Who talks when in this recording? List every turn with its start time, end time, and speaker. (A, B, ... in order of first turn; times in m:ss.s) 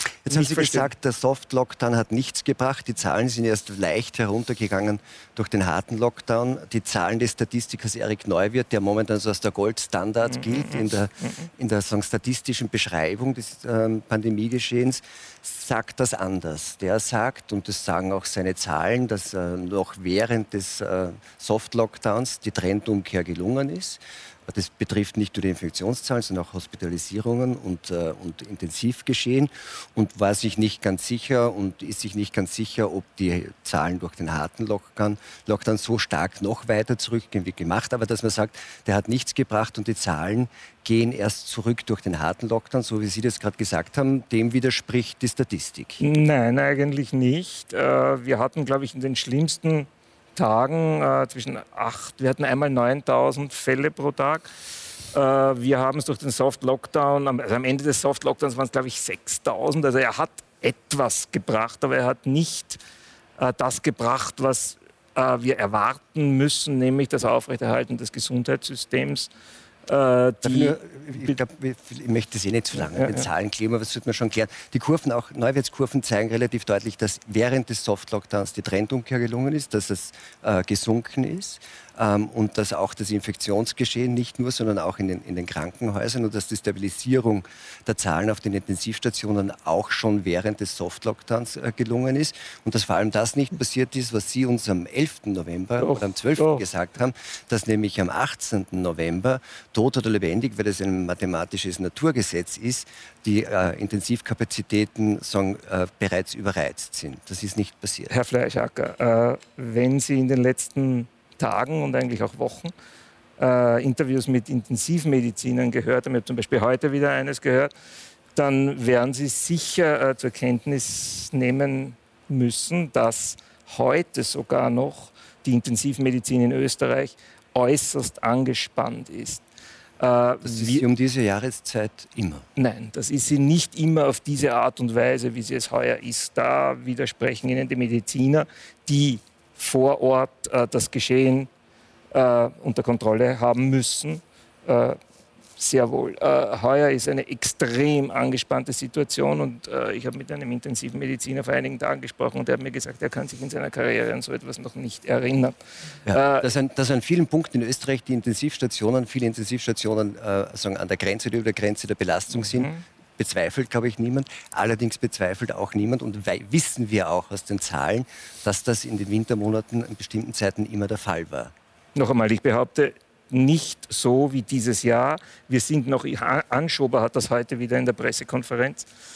0:00.2-0:46.0 A
0:00.3-0:00.9 B
0:10.3-0:11.5 B
0:46.0-0:54.5 B
0:55.1-1:02.8 B
1:03.4-1:09.3 B
1:09.9-1:11.4 B
1:10.4-1:48.1 A
1:12.9-1:13.3 B
1:35.8-1:36.6 B
1:48.1-1:52.7 B
1:53.4-1:57.7 B
1:58.3-2:09.4 B
2:10.0-2:10.8 B
2:10.4-2:12.5 A
2:12.6-2:21.5 B
2:22.1-2:25.0 B
2:25.6-2:36.5 B
2:36.1-2:51.5 A
2:42.4-2:42.8 B
2:51.9-2:58.8 B